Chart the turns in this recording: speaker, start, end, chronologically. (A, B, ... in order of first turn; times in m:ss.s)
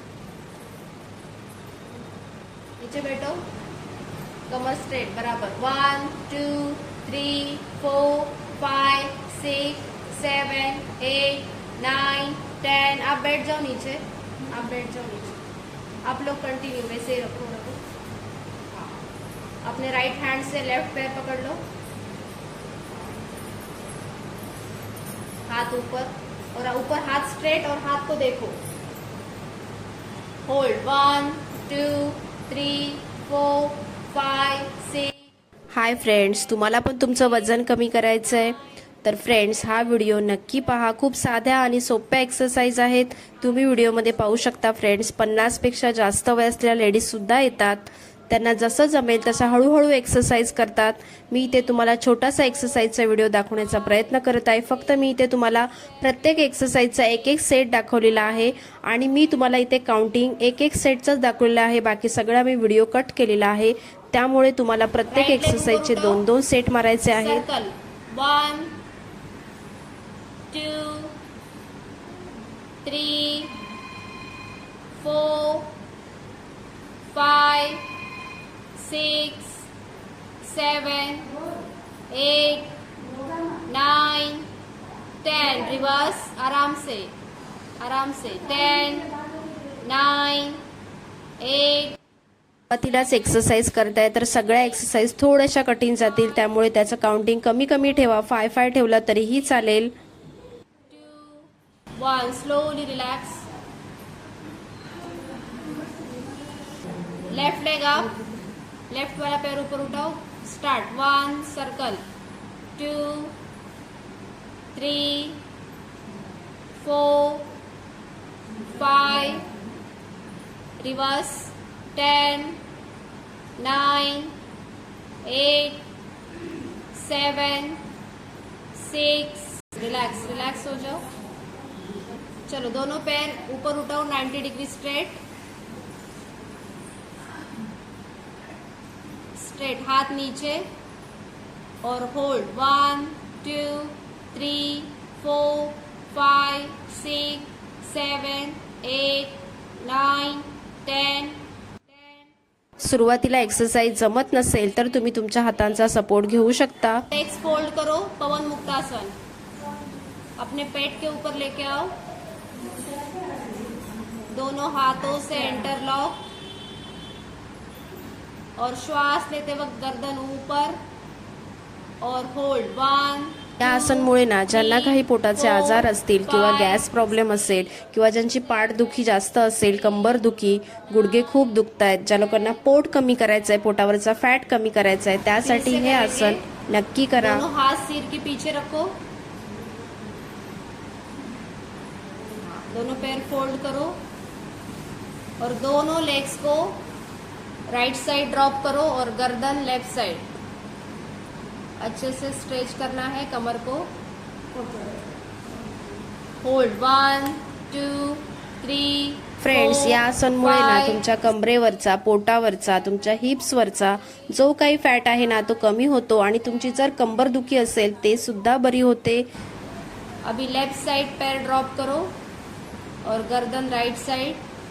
0:02.8-0:03.4 A
0:04.5-0:15.4 A
0:16.0-0:17.8 A
0:18.7-0:19.0 A
0:19.6-0:21.6 A
0:25.5-0:28.6 A
0:30.4-0:35.2 A
0:35.7-1:07.4 B
1:05.1-1:06.2 A
1:07.1-1:08.8 A
1:10.5-1:11.1 A
1:12.8-1:13.5 A
1:15.0-1:15.7 A
1:17.1-1:17.9 A
1:18.8-1:19.7 A
1:20.4-1:21.3 A
1:22.1-1:22.8 A
1:23.7-1:24.5 A
1:25.2-1:27.1 A
1:27.8-1:29.1 A
1:29.8-1:30.6 A
1:31.4-1:32.0 A
1:32.7-1:39.9 B
1:40.9-1:43.5 A
1:47.3-1:48.1 A
1:48.9-1:52.0 A
1:52.8-1:53.4 A
1:54.8-1:55.4 A
1:56.8-1:57.5 A
1:58.7-1:59.5 A
2:00.8-2:02.6 A
2:03.6-2:04.4 A
2:05.2-2:05.8 A
2:06.9-2:07.8 A
2:08.7-2:11.0 A
2:12.5-2:15.2 A
2:19.3-2:20.7 A
2:21.8-2:31.4 A
2:32.8-2:37.0 B
2:37.1-2:39.1 A
2:40.4-2:42.0 A
2:44.3-2:46.2 A
2:48.6-2:50.8 A
2:52.0-2:56.9 A
2:53.6-3:07.4 B
3:05.4-3:06.4 A
3:07.2-3:09.0 A
3:12.4-3:14.0 A
3:15.4-3:16.8 A
3:17.7-3:20.3 A
3:21.8-3:23.9 A
3:26.4-3:31.0 A
3:29.4-3:39.2 B
3:40.2-3:42.1 A
3:43.0-3:44.4 A